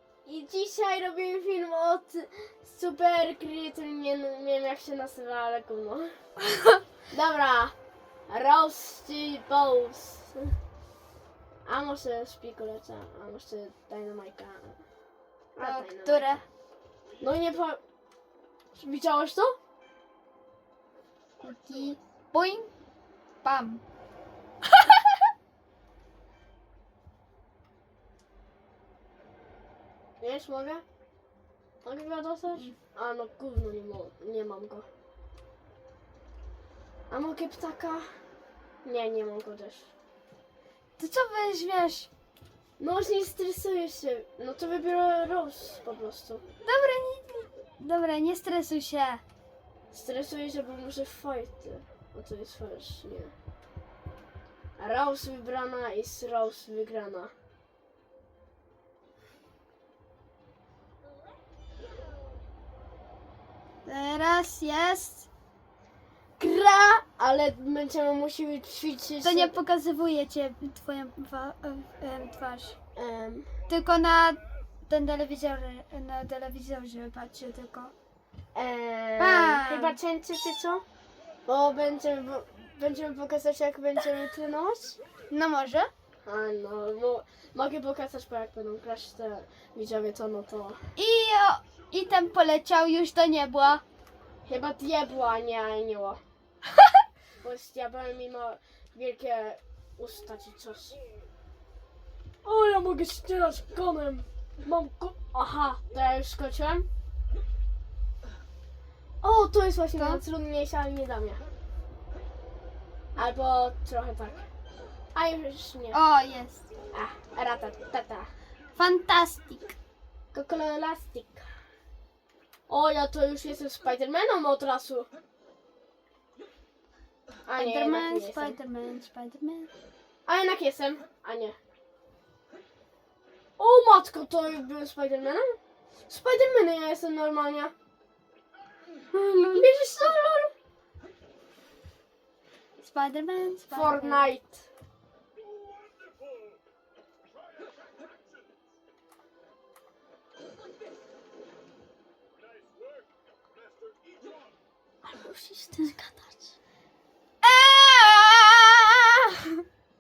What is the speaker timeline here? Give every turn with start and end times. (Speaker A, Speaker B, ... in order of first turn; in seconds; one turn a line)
Speaker A: 0.2-6.2
Speaker A: 7.1-7.7
Speaker A: 8.3-10.5
Speaker A: 11.7-14.8
Speaker A: 15.6-16.4
Speaker B: 15.6-16.4
Speaker A: 17.2-17.8
Speaker A: 18.8-19.6
Speaker B: 21.4-22.7
Speaker B: 23.4-23.8
Speaker B: 24.7-25.1
Speaker A: 30.2-30.8
Speaker A: 31.8-34.9
Speaker A: 37.1-38.1
Speaker A: 38.8-39.9
Speaker B: 41.0-42.1
Speaker A: 42.8-46.4
Speaker B: 46.6-49.2
Speaker A: 49.9-53.3
Speaker A: 54.8-57.3
Speaker B: 63.9-65.3
Speaker A: 66.4-69.6
Speaker B: 69.2-72.8
Speaker A: 73.0-73.5
Speaker B: 73.7-77.9
Speaker A: 78.5-80.8
Speaker B: 79.2-80.0
Speaker A: 81.5-85.0
Speaker B: 85.3-85.9
Speaker A: 86.2-90.8
Speaker B: 91.0-93.8
Speaker A: 94.5-96.2
Speaker A: 97.4-101.0
Speaker A: 102.4-106.9
Speaker A: 109.2-111.4
Speaker A: 113.2-114.5
Speaker A: 115.2-116.0
Speaker B: 115.9-116.7
Speaker A: 116.9-118.3
Speaker B: 118.8-119.8
Speaker A: 120.3-121.5
Speaker A: 122.7-125.1
Speaker A: 127.5-128.6
Speaker B: 127.6-129.7
Speaker A: 130.3-131.6
Speaker A: 133.6-135.6
Speaker A: 136.1-137.7
Speaker B: 139.1-140.1
Speaker A: 139.5-140.5
Speaker B: 142.8-144.3
Speaker A: 143.7-144.7
Speaker A: 155.0-156.5
Speaker B: 157.4-159.6